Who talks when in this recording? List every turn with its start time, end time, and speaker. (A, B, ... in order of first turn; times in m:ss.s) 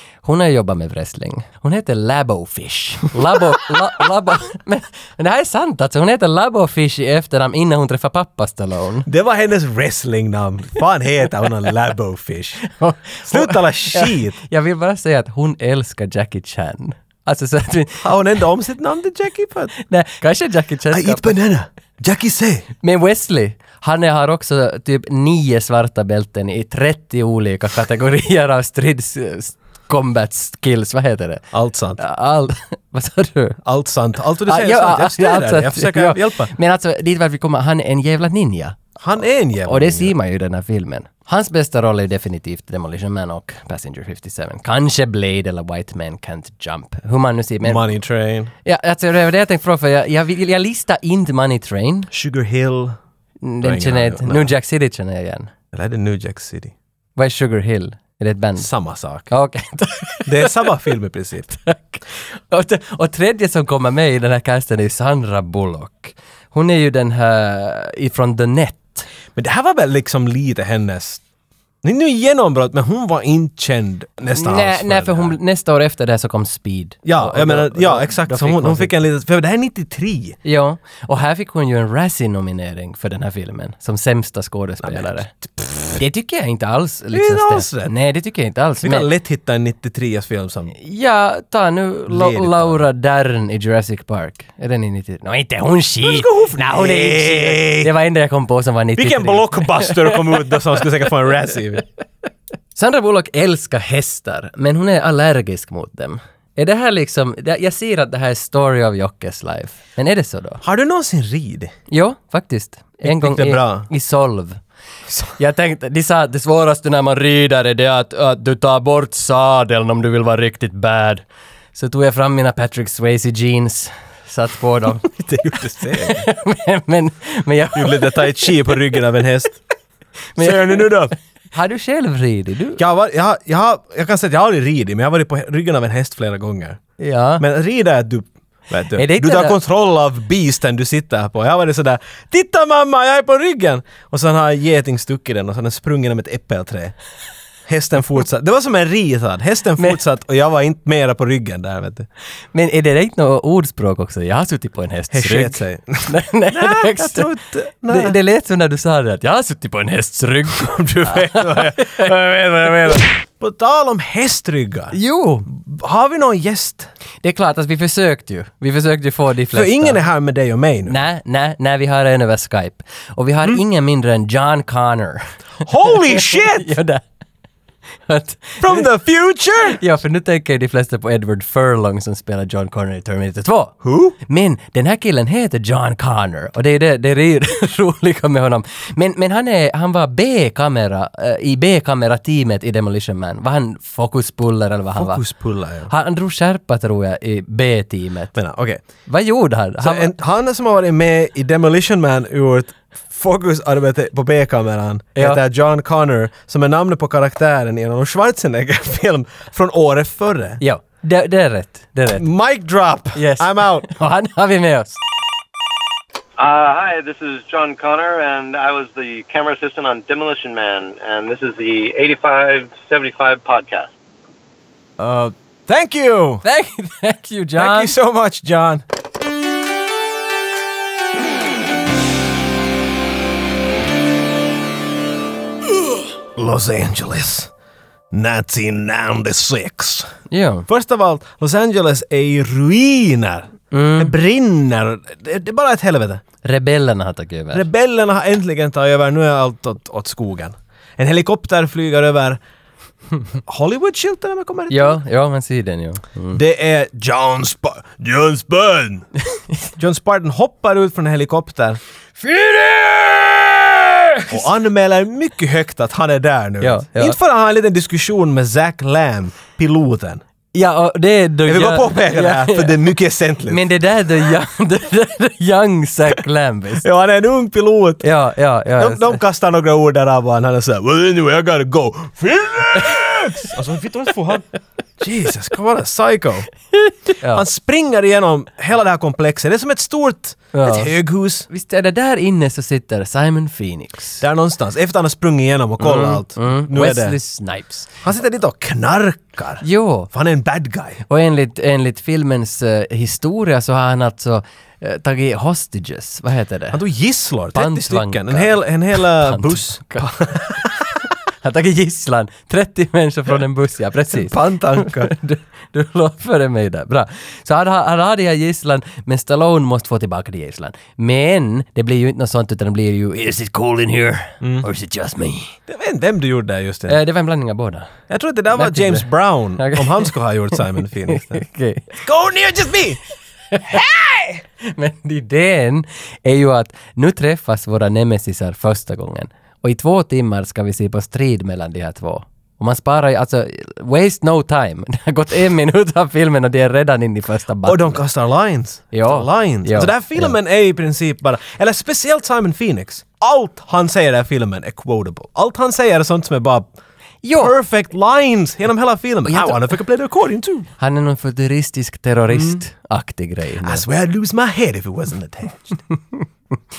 0:00.2-0:09.1 A
0:09.0-0:12.6 B
0:12.6-0:18.1 A
0:13.2-0:14.4 B
0:18.0-0:19.7 B
0:19.7-0:21.4 A
0:20.9-0:22.7 B
0:22.8-0:33.6 A
0:31.5-0:32.0 B
0:33.6-0:36.5 B
0:34.4-0:38.8 A
0:39.0-0:40.1 B
0:39.6-0:47.8 A
0:47.6-0:48.5 B
0:48.6-0:52.1 A
0:52.1-0:53.0 B
0:53.4-0:55.5 A
0:53.6-0:54.5 B
0:55.7-0:56.7 B
0:57.2-0:58.7 A
0:58.6-0:59.3 B
0:59.3-1:00.7 A
1:00.2-1:01.6 B
1:01.6-1:09.1 A
1:09.3-1:11.2 B
1:11.8-1:15.3 B
1:14.3-1:19.0 A
1:17.0-1:20.4 B
1:20.4-1:25.3 A
1:24.8-1:26.0 B
1:25.9-1:29.1 A
1:27.1-1:27.9 B
1:28.8-1:30.8 B
1:30.7-1:40.8 A
1:32.1-1:32.8 B
1:36.0-1:37.9 B
1:39.0-1:41.8 B
1:42.8-1:50.6 A
1:50.6-1:51.7 B
1:51.9-1:54.6 A
1:53.0-1:53.9 B
1:55.4-2:05.2 A
2:05.2-2:06.3 B
2:05.9-2:08.6 A
2:07.7-2:09.6 B
2:10.3-2:11.0 A
2:10.4-2:11.1 B
2:11.5-2:12.8 A
2:12.8-2:16.8 B
2:17.0-2:17.4 A
2:17.4-2:26.9 B
2:19.0-2:19.6 A
2:27.6-2:32.1 B
2:32.5-2:37.3 A
2:35.1-2:38.2 B
2:37.9-2:42.1 A
2:40.6-2:45.0 B
2:44.9-2:45.5 A
2:45.5-2:46.9 B
2:47.2-2:50.0 A
2:49.5-2:51.0 B
2:50.9-2:55.3 A
2:55.6-2:56.7 B
2:55.9-2:57.0 A
2:58.0-2:58.8 A
2:58.6-2:59.8 B
2:59.6-3:15.2 A
3:03.8-3:04.2 B
3:14.9-3:15.9 B
3:15.9-3:18.4 A
3:18.3-3:18.8 B
3:19.0-3:20.1 A
3:19.8-3:30.6 B
3:25.2-3:25.4 A
3:30.6-3:32.2 A
3:32.1-3:33.9 B
3:33.1-3:35.0 A
3:36.4-3:43.9 C
3:45.0-3:46.4 B
3:46.4-3:47.9 A
3:47.6-3:48.8 B
3:56.4-3:57.5 B
3:58.1-4:00.1 B
4:00.3-4:00.7 A
4:00.7-4:06.2 B
4:03.7-4:04.1 A
4:06.4-4:07.6 A
4:07.5-4:12.4 B
4:13.4-4:15.0 B
4:14.7-4:16.4 A
4:16.3-4:19.0 B
4:19.8-4:21.8 B
4:22.2-4:24.5 A
4:24.3-4:30.2 B
4:26.6-4:27.2 A
4:30.5-4:32.8 A
4:31.4-4:33.6 B
4:33.5-4:36.8 A
4:36.8-4:38.0 B
4:38.0-4:39.2 A
4:38.8-4:44.4 B
4:45.0-4:46.5 B
4:47.1-4:47.4 A
4:47.3-4:51.5 B
4:50.5-4:50.9 A
4:51.5-4:54.2 A
4:54.2-4:57.2 B
4:55.8-4:58.0 A
4:58.0-5:01.0 B
4:59.6-5:00.1 A
5:01.1-5:06.8 A
5:06.7-5:10.9 B
5:07.5-5:25.6 A
5:14.1-5:15.1 B
5:24.4-5:24.7 B
5:25.7-5:27.0 B
5:26.9-5:27.9 A
5:28.1-5:31.4 B
5:28.5-5:32.0 A
5:31.9-5:33.0 B
5:33.5-5:48.0 A
5:47.6-5:56.7 B
5:48.9-5:50.3 A
5:57.2-5:57.5 A
5:57.3-6:00.7 B
5:59.2-5:59.8 A
6:00.8-6:03.8 A
6:02.3-6:02.6 B
6:03.6-6:05.8 B